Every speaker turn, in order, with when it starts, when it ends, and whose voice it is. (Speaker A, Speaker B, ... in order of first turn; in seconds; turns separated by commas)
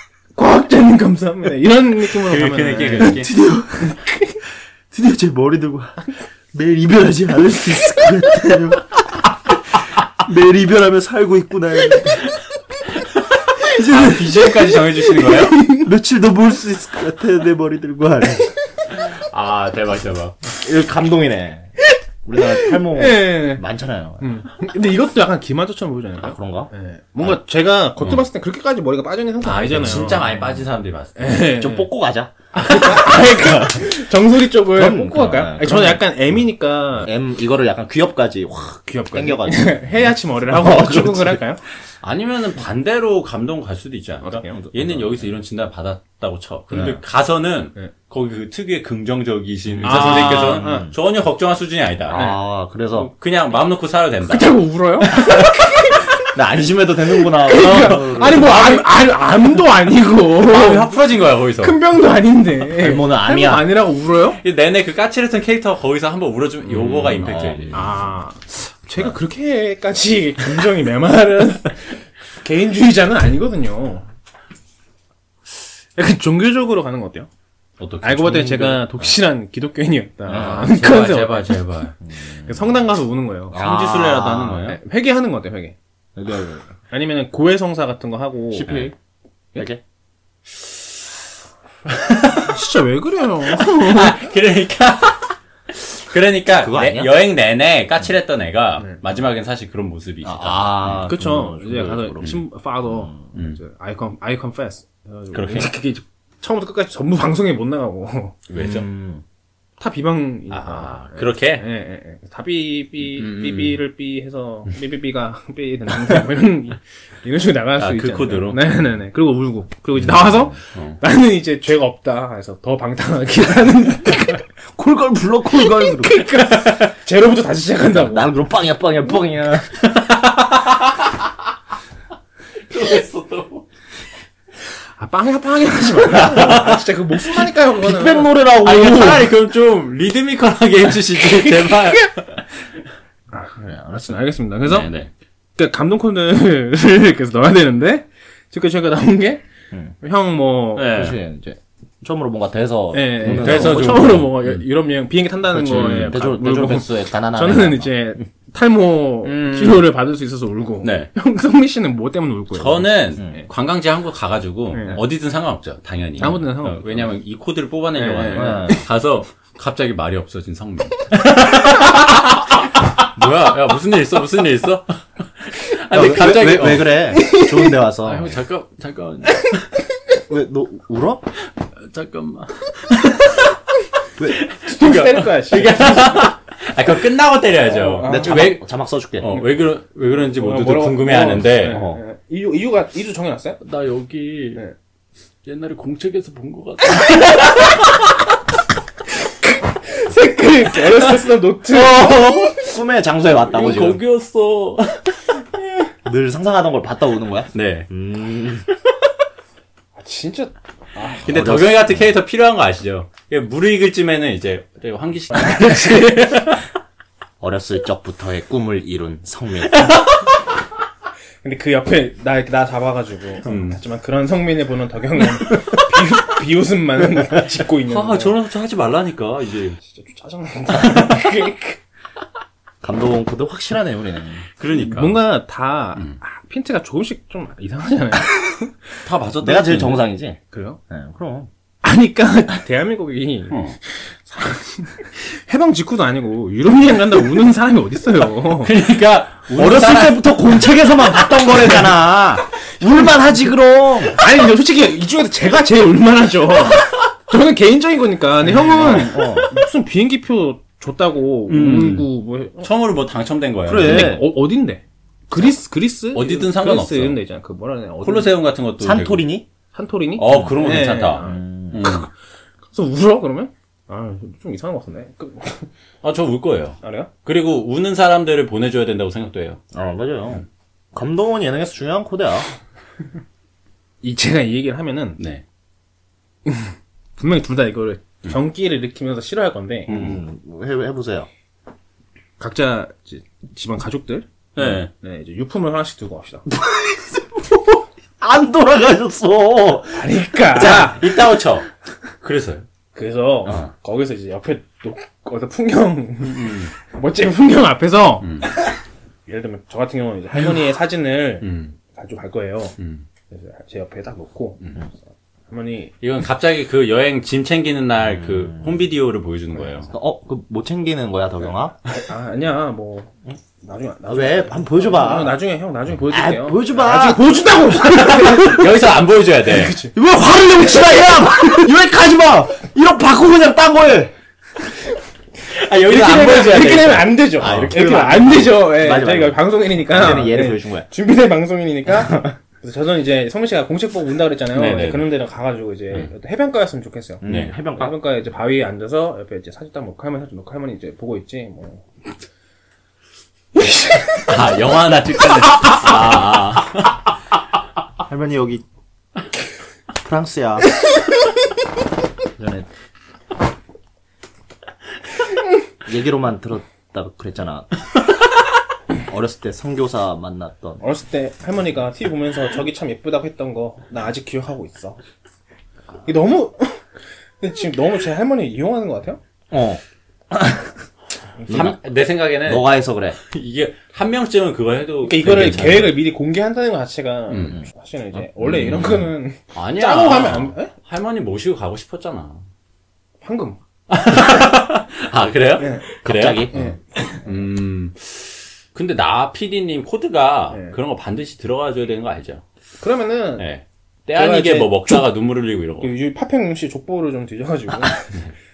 Speaker A: 0.3-4.4, Speaker B: 2.1-3.3, Speaker C: 3.3-3.9, Speaker C: 4.9-12.3, Speaker B: 13.3-15.6, Speaker A: 14.4-15.9, Speaker C: 15.8-18.5, Speaker B: 18.9-20.4, Speaker C: 20.5-24.2, Speaker A: 22.5-23.6, Speaker A: 24.2-30.6, Speaker C: 26.2-27.4, Speaker B: 29.4-31.5, Speaker A: 31.1-31.9, Speaker C: 31.6-33.9, Speaker A: 32.5-37.1, Speaker C: 34.6-36.1, Speaker C: 37.0-41.4, Speaker A: 38.8-41.6, Speaker B: 42.0-52.2, Speaker A: 44.2-44.6, Speaker C: 44.5-45.3, Speaker C: 46.7-47.0, Speaker C: 49.7-51.0, Speaker A: 49.8-50.9, Speaker C: 52.1-53.1, Speaker A: 52.1-52.4, Speaker B: 52.9-54.5, Speaker A: 54.2-56.2, Speaker C: 56.2-58.6, Speaker A: 57.4-60.9, Speaker B: 57.6-58.9, Speaker B: 60.4-61.8, Speaker A: 61.6-64.4, Speaker C: 62.8-63.7, Speaker B: 64.4-67.9, Speaker C: 66.6-68.0, Speaker A: 67.7-74.1, Speaker A: 75.5-77.3, Speaker B: 77.8-79.1, Speaker A: 78.0-81.6, Speaker C: 80.3-80.7, Speaker B: 80.3-81.9, Speaker C: 82.0-82.8, Speaker A: 82.4-85.8, Speaker C: 83.5-84.3, Speaker B: 83.5-84.8, Speaker C: 86.2-86.7, Speaker A: 86.9-88.8, Speaker C: 88.5-88.9, Speaker C: 89.5-89.8, Speaker B: 91.8-92.6, Speaker A: 92.5-94.3, Speaker B: 93.6-101.0, Speaker C: 96.6-97.1, Speaker C: 100.2-103.2, Speaker A: 101.0-108.3, Speaker B: 103.3-103.6, Speaker B: 105.3-105.7, Speaker B: 108.5-108.9, Speaker C: 108.5-109.2, Speaker A: 109.8-124.4, Speaker B: 110.5-111.6, Speaker B: 113.0-113.8, Speaker B: 117.8-118.6, Speaker B: 120.0-121.0, Speaker C: 124.7-126.5, Speaker A: 125.5-128.3, Speaker C: 127.9-129.8, Speaker B: 129.8-131.3, Speaker B: 132.6-133.6, Speaker A: 135.0-138.3, Speaker B: 136.3-136.8, Speaker C: 137.8-139.3, Speaker B: 138.6-142.4, Speaker A: 141.3-142.1, Speaker A: 143.3-144.9, Speaker C: 143.6-144.1, Speaker C: 144.7-145.1, Speaker A: 145.6-149.4, Speaker A: 150.0-151.0, Speaker B: 150.8-151.2, Speaker C: 150.9-154.3, Speaker A: 152.9-163.4, Speaker B: 153.2-154.7, Speaker C: 155.5-158.2, Speaker B: 155.7-156.2, Speaker B: 159.2-159.9, Speaker B: 160.8-161.1, Speaker B: 162.5-177.0, Speaker A: 164.7-165.0, Speaker A: 166.2-167.0, Speaker A: 167.9-168.8, Speaker C: 168.3-168.8, Speaker C: 175.9-178.4, Speaker A: 177.1-177.7, Speaker B: 178.0-179.7, Speaker C: 180.3-181.3, Speaker B: 181.6-183.6, Speaker B: 184.2-188.6, Speaker A: 184.6-186.2, Speaker A: 187.6-188.6, Speaker C: 188.0-189.3, Speaker B: 189.2-191.8, Speaker A: 190.2-193.6, Speaker C: 191.3-192.0, Speaker B: 193.6-194.6, Speaker B: 195.4-197.9, Speaker A: 199.4-202.5, Speaker B: 201.7-202.6, Speaker C: 202.5-204.0, Speaker B: 203.4-205.3, Speaker C: 206.0-208.7, Speaker B: 207.5-207.9, Speaker A: 209.9-211.4, Speaker B: 211.2-216.7, Speaker C: 211.2-212.1, Speaker C: 217.4-219.9, Speaker B: 219.7-220.2, Speaker A: 221.4-228.3, Speaker B: 223.4-223.8, Speaker B: 227.9-229.8, Speaker A: 229.8-231.8, Speaker C: 232.8-234.4, Speaker B: 234.6-235.2, Speaker A: 234.7-238.8, Speaker B: 239.0-240.0, Speaker C: 239.4-241.5, Speaker A: 240.5-240.8, Speaker A: 241.8-248.7, Speaker B: 243.5-243.8, Speaker B: 248.6-250.3, Speaker C: 249.5-254.2, Speaker A: 254.1-262.7, Speaker C: 258.4-259.5, Speaker B: 261.5-262.1, Speaker C: 261.5-262.0, Speaker B: 262.6-264.2, Speaker C: 263.6-264.2, Speaker A: 263.8-268.3, Speaker B: 266.1-267.2, Speaker B: 268.0-269.2, Speaker C: 268.8-269.5, Speaker A: 269.7-272.1, Speaker B: 270.2-272.1, Speaker C: 270.3-271.9, Speaker A: 272.7-275.7, Speaker B: 276.0-279.6, Speaker A: 276.8-277.1, Speaker C: 279.7-282.5, Speaker A: 284.0-285.2, Speaker B: 285.2-285.4, Speaker A: 286.4-289.9, Speaker C: 289.9-291.3, Speaker A: 292.4-294.3, Speaker B: 294.6-294.9, Speaker A: 294.9-296.4, Speaker C: 296.5-300.9, Speaker A: 299.9-301.1, Speaker B: 300.6-301.7, Speaker B: 302.2-302.7, Speaker A: 302.9-308.7, Speaker B: 306.2-306.7, Speaker B: 308.2-308.5, Speaker A: 309.2-312.8, Speaker B: 311.4-311.7, Speaker B: 312.8-313.0, Speaker A: 313.3-315.9, Speaker B: 316.0-319.9, Speaker C: 318.1-318.7, Speaker A: 319.6-319.8, Speaker C: 319.9-321.7, Speaker A: 321.8-328.7, Speaker C: 324.1-325.4, Speaker C: 326.1-328.0, Speaker B: 327.8-329.8, Speaker A: 329.4-329.9, Speaker C: 329.9-334.1, Speaker B: 335.4-337.8, Speaker A: 335.8-351.8, Speaker C: 337.4-340.9, Speaker C: 341.9-342.3, Speaker B: 344.5-345.1, Speaker C: 347.2-347.9, Speaker B: 347.2-347.5, Speaker A: 353.5-354.4, Speaker B: 354.2-357.0, Speaker C: 358.1-358.6, Speaker C: 360.0-360.8, Speaker C: 362.4-362.7, Speaker C: 365.8-367.7, Speaker C: 369.0-370.8, Speaker A: 370.8-375.0, Speaker A: 376.0-379.2, Speaker C: 379.5-380.9, Speaker A: 381.4-381.7, Speaker C: 381.5-381.8, Speaker B: 381.5-386.0, Speaker C: 382.4-383.2, Speaker A: 385.0-390.7, Speaker B: 387.3-387.6, Speaker C: 388.2-389.0, Speaker B: 388.4-392.4, Speaker A: 393.2-393.6, Speaker B: 393.9-396.6, Speaker A: 395.6-395.9, Speaker C: 396.0-396.7, Speaker A: 396.5-397.2, Speaker B: 397.2-402.4, Speaker A: 400.5-400.8, Speaker A: 402.8-403.4, Speaker B: 403.4-405.9, Speaker A: 404.1-405.1, Speaker A: 405.8-408.1, Speaker B: 407.9-408.3